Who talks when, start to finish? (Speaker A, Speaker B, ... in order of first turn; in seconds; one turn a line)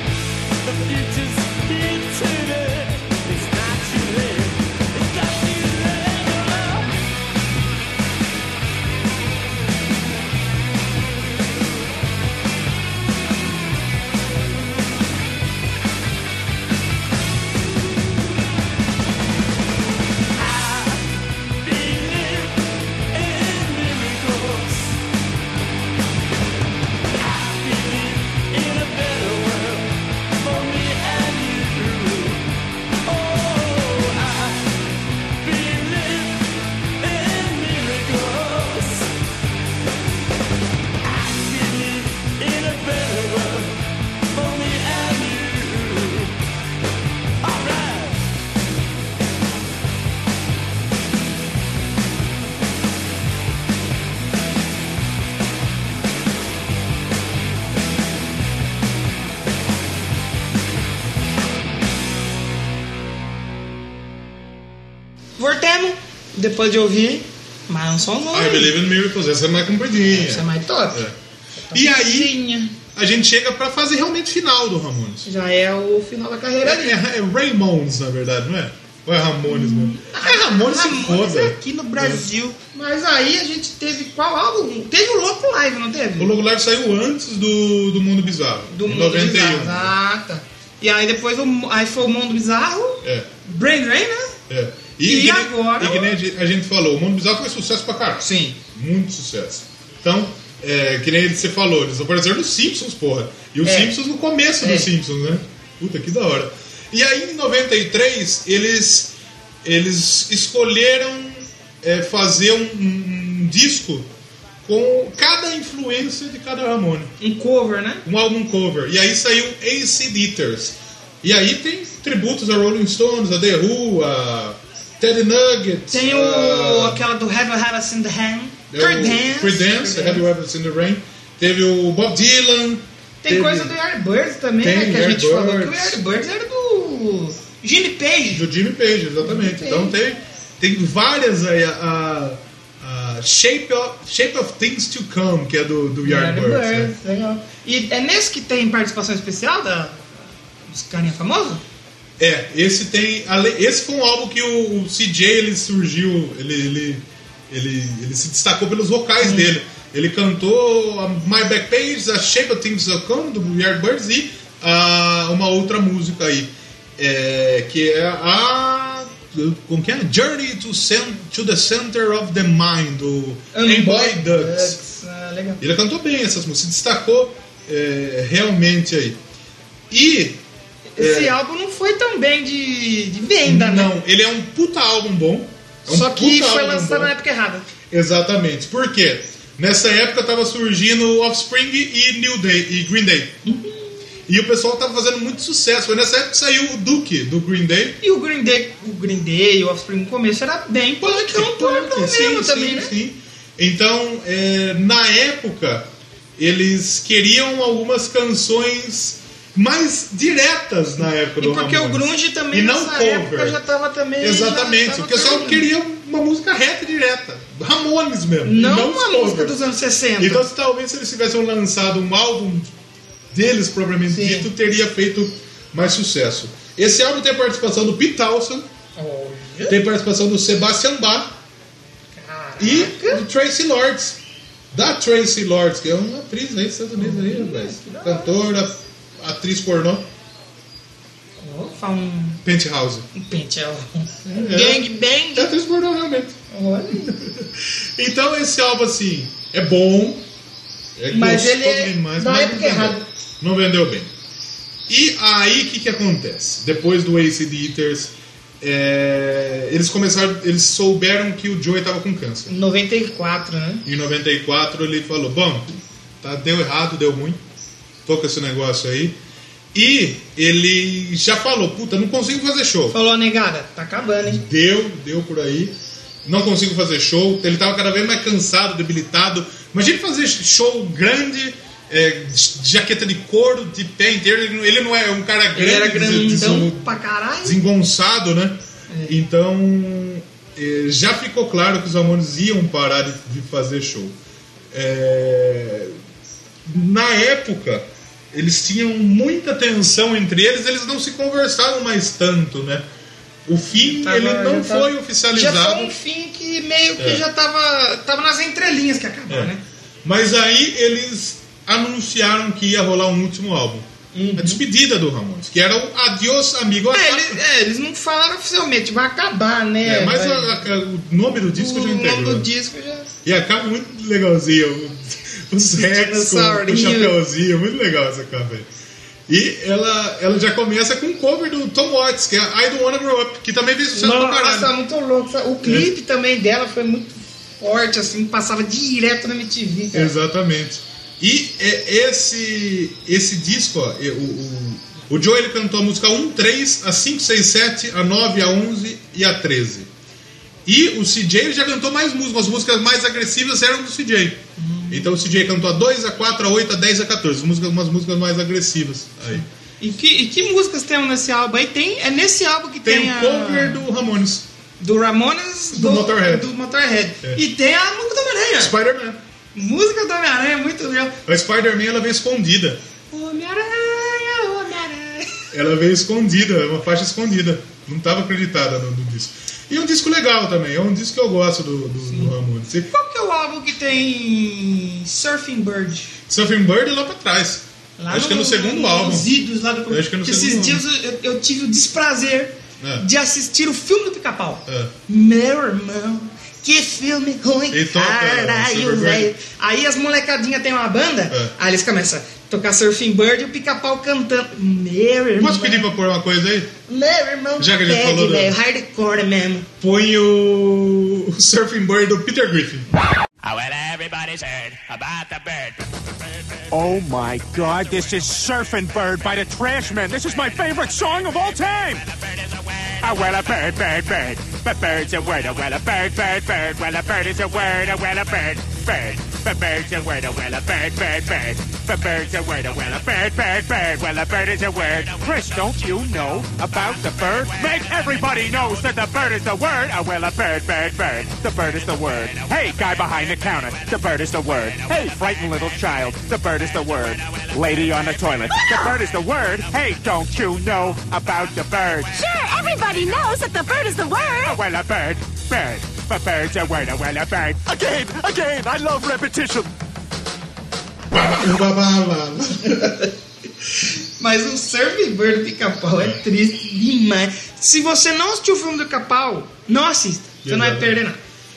Speaker A: 0.6-6.9
Speaker A: 20.3-25.0
Speaker A: 27.1-32.5
Speaker A: 33.0-34.7
Speaker A: 35.4-39.1
Speaker A: 41.0-43.8
Speaker A: 44.3-46.4
Speaker A: 47.4-48.3
Speaker B: 65.4-68.7
Speaker C: 68.3-71.2
Speaker B: 70.1-71.0
Speaker B: 71.6-72.7
Speaker C: 71.7-72.3
Speaker C: 72.9-75.3
Speaker B: 75.2-77.0
Speaker C: 76.6-82.2
Speaker B: 79.5-86.3
Speaker C: 86.2-89.9
Speaker B: 88.7-94.4
Speaker C: 93.0-93.3
Speaker C: 94.5-114.1
Speaker B: 95.0-96.1
Speaker B: 98.2-98.6
Speaker B: 103.6-104.0
Speaker B: 104.6-104.9
Speaker C: 114.6-117.1
Speaker B: 117.2-118.0
Speaker C: 118.0-127.0
Speaker B: 125.9-130.2
Speaker C: 128.7-133.7
Speaker B: 133.2-138.4
Speaker C: 134.6-136.0
Speaker C: 138.3-146.9
Speaker B: 139.2-139.9
Speaker B: 146.0-151.6
Speaker C: 152.2-174.8
Speaker B: 159.2-159.5
Speaker B: 173.5-175.6
Speaker C: 175.6-179.2
Speaker C: 179.9-180.4
Speaker B: 180.9-183.9
Speaker C: 181.0-181.3
Speaker C: 183.4-187.1
Speaker B: 185.8-187.7
Speaker C: 187.9-193.4
Speaker B: 193.4-193.9
Speaker C: 194.3-198.0
Speaker B: 198.0-202.9
Speaker C: 201.0-213.6
Speaker B: 211.4-215.6
Speaker C: 214.2-222.7
Speaker B: 218.4-220.4
Speaker C: 223.3-228.7
Speaker B: 224.1-224.5
Speaker B: 228.9-229.8
Speaker C: 229.7-231.3
Speaker B: 232.1-233.2
Speaker C: 232.6-234.2
Speaker C: 234.7-240.1
Speaker B: 236.9-238.4
Speaker B: 241.4-242.4
Speaker C: 242.4-243.1
Speaker B: 243.1-245.5
Speaker C: 244.3-246.4
Speaker B: 246.5-247.2
Speaker C: 246.9-250.2
Speaker C: 250.9-254.1
Speaker B: 251.1-253.0
Speaker C: 254.9-262.5
Speaker B: 262.5-263.9
Speaker C: 263.8-267.4
Speaker C: 268.0-269.1
Speaker C: 269.7-273.0
Speaker B: 272.9-274.4
Speaker C: 274.2-286.9
Speaker B: 285.5-287.6
Speaker C: 287.4-294.1
Speaker B: 288.9-289.2
Speaker C: 294.7-296.0
Speaker C: 296.6-302.9
Speaker C: 303.4-305.9
Speaker B: 303.8-309.6
Speaker C: 307.0-307.2
Speaker C: 310.0-317.4
Speaker B: 314.1-314.6
Speaker B: 316.9-320.6
Speaker C: 319.8-322.5
Speaker B: 321.5-323.1
Speaker C: 323.2-328.7
Speaker B: 325.7-327.1
Speaker C: 329.3-334.7
Speaker B: 333.9-340.1
Speaker C: 335.6-335.9
Speaker C: 339.9-349.9
Speaker C: 350.6-359.4
Speaker B: 354.6-355.1
Speaker B: 359.4-363.9
Speaker C: 362.8-364.4
Speaker B: 364.8-368.7
Speaker C: 365.7-366.5
Speaker C: 368.6-369.2
Speaker B: 369.5-371.2
Speaker C: 371.2-372.8
Speaker B: 373.1-375.5
Speaker C: 375.5-382.9
Speaker B: 382.1-382.3
Speaker B: 382.9-386.1
Speaker C: 386.3-389.3
Speaker B: 388.0-405.9
Speaker C: 389.9-390.8
Speaker C: 392.8-393.1
Speaker C: 394.7-394.9
Speaker C: 397.7-399.3
Speaker C: 405.4-406.7
Speaker B: 406.9-409.7
Speaker C: 407.6-408.6
Speaker C: 409.8-412.9
Speaker D: 413.4-415.8
Speaker D: 416.7-422.0
Speaker D: 423.0-452.1
Speaker E: 452.1-454.6
Speaker D: 454.4-459.7
Speaker C: 461.1-463.1
Speaker B: 464.2-471.2
Speaker C: 470.4-471.0